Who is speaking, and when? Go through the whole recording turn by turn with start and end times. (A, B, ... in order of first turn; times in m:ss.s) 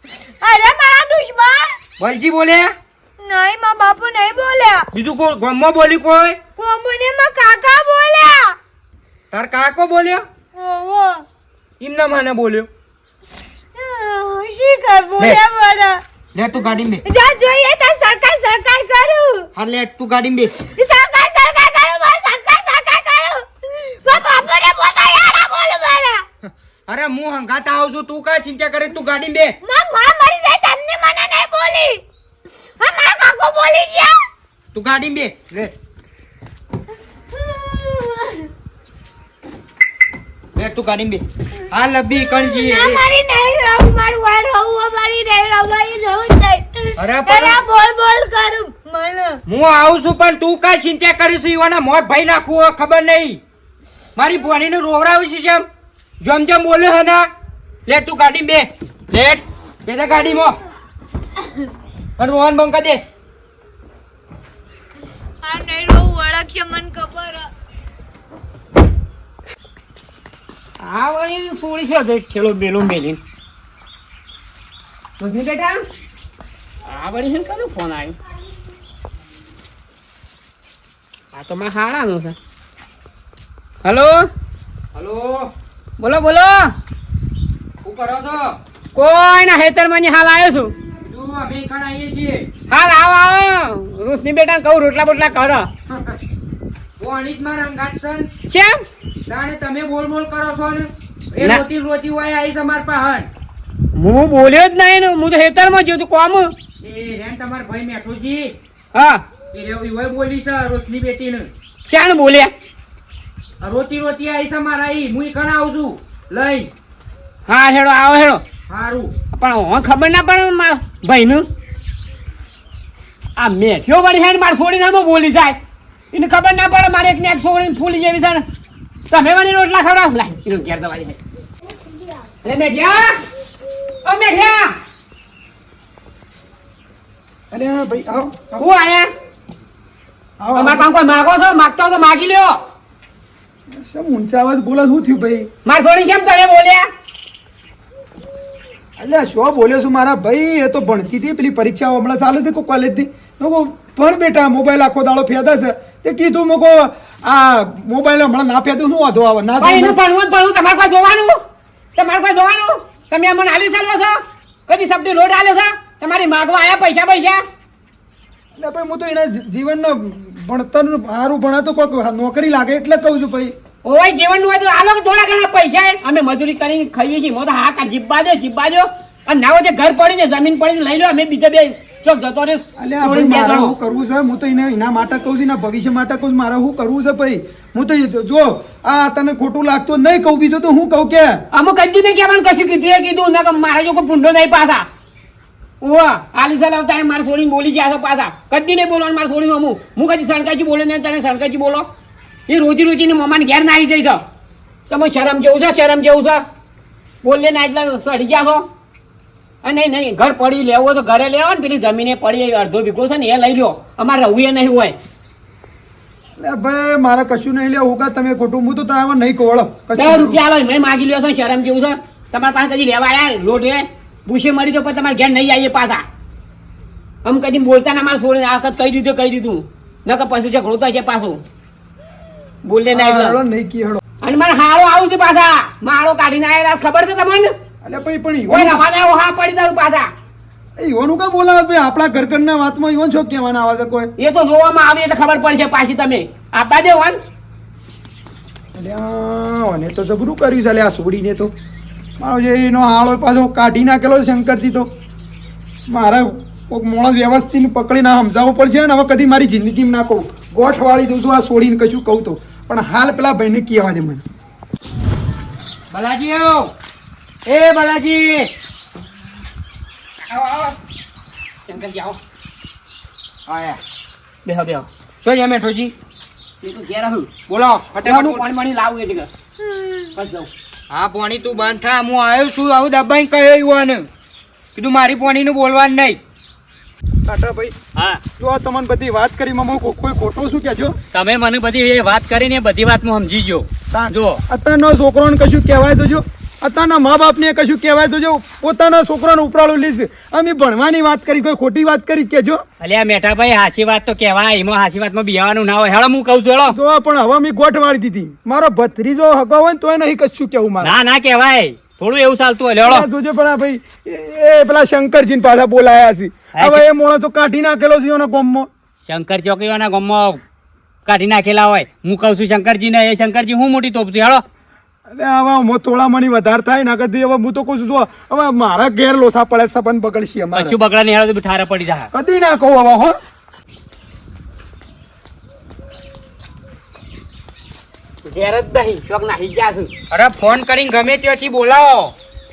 0:00.4-0:01.7 A
0:02.0-0:02.7 B
0:03.2-0:04.9 A
0:04.9-0:06.4 B
0:06.6-0:08.6 A
0:09.3-0:10.2 B
0:10.5-0:11.2 A
0:11.8-0:12.7 B
0:13.7-0:16.0 A
0:16.3-0:17.0 B
0:17.0-0:19.5 A
0:19.6-0:20.5 B
0:20.6-0:26.2 A
0:26.4-0:29.5 B
0:29.6-0:32.0 A
0:32.8-0:34.2 A
0:34.7-0:35.7 B
0:37.4-0:38.4 A
0:40.5-0:43.0 B
0:42.2-0:49.4 A
0:47.0-0:47.6 B
0:49.5-0:53.4 B
0:54.2-0:55.7 B
0:56.2-0:57.3 B
0:57.8-1:00.6 B
1:02.2-1:03.0 B
1:05.4-1:07.5 A
1:10.8-1:13.2 C
1:15.2-1:15.8 C
1:16.8-1:18.2 C
1:21.3-1:22.4 C
1:23.8-1:24.3 C
1:24.9-1:25.5 B
1:26.0-1:26.7 C
1:27.8-1:28.6 B
1:28.9-1:30.8 C
1:31.1-1:32.4 B
1:32.7-1:35.7 C
1:35.9-1:36.2 B
1:37.0-1:38.3 B
1:38.5-1:38.8 C
1:39.3-1:43.3 B
1:43.9-1:46.5 C
1:46.8-1:48.5 B
1:48.9-1:49.2 C
1:49.5-1:51.5 B
1:51.8-1:52.5 C
1:53.6-1:56.7 B
1:57.5-1:58.4 C
1:58.7-1:59.1 B
1:59.3-2:01.4 C
2:03.4-2:05.6 C
2:06.1-2:08.4 C
2:09.1-2:11.2 C
2:12.4-2:13.2 C
2:14.0-2:14.7 C
2:17.5-2:18.7 D
2:18.6-2:19.1 C
2:20.4-2:20.9 D
2:20.5-2:22.6 C
2:23.7-2:25.5 D
2:25.6-2:26.9 C
2:29.0-2:40.0 D
2:39.6-2:41.4 C
2:42.0-2:47.4 C
2:48.6-2:53.5 D
2:53.8-3:03.8 C
3:02.8-3:11.4 D
3:11.5-3:14.9 C
3:15.8-3:21.9 C
3:22.5-3:24.2 C
3:24.9-3:26.4 C
3:27.2-3:28.6 C
3:29.6-3:35.0 C
3:36.4-3:40.4 D
3:39.9-3:46.0 C
3:47.2-3:51.4 C
3:52.6-3:53.4 C
3:52.9-3:54.0 D
3:54.2-3:57.5 C
3:57.8-3:58.8 D
3:58.5-4:00.1 C
4:00.8-4:04.1 D
4:04.2-4:07.2 C
4:08.7-4:11.5 D
4:12.2-4:14.9 D
4:15.9-4:24.2 D
4:25.9-4:26.7 B
4:27.4-4:28.5 B
4:30.3-4:30.7 C
4:31.7-4:32.2 C
4:33.5-4:33.8 B
4:34.4-4:34.9 C
4:35.2-4:35.9 B
4:36.6-4:37.3 C
4:37.5-4:38.4 B
4:38.0-4:39.3 C
4:40.1-4:40.5 C
4:40.9-4:44.1 B
4:44.7-4:46.2 B
4:47.2-4:47.8 D
4:48.0-4:48.2 E
4:48.4-4:51.0 D
4:51.1-4:54.4 E
4:53.9-5:02.6 D
5:02.8-5:06.8 E
5:06.7-5:10.9 D
5:10.8-5:13.0 E
5:12.8-5:18.7 D
5:16.5-5:16.8 E
5:19.0-5:20.4 E
5:21.0-5:24.4 E
5:25.1-5:30.8 D
5:30.5-5:32.1 E
5:32.1-5:33.2 D
5:38.2-5:39.9 C
5:40.1-5:42.1 B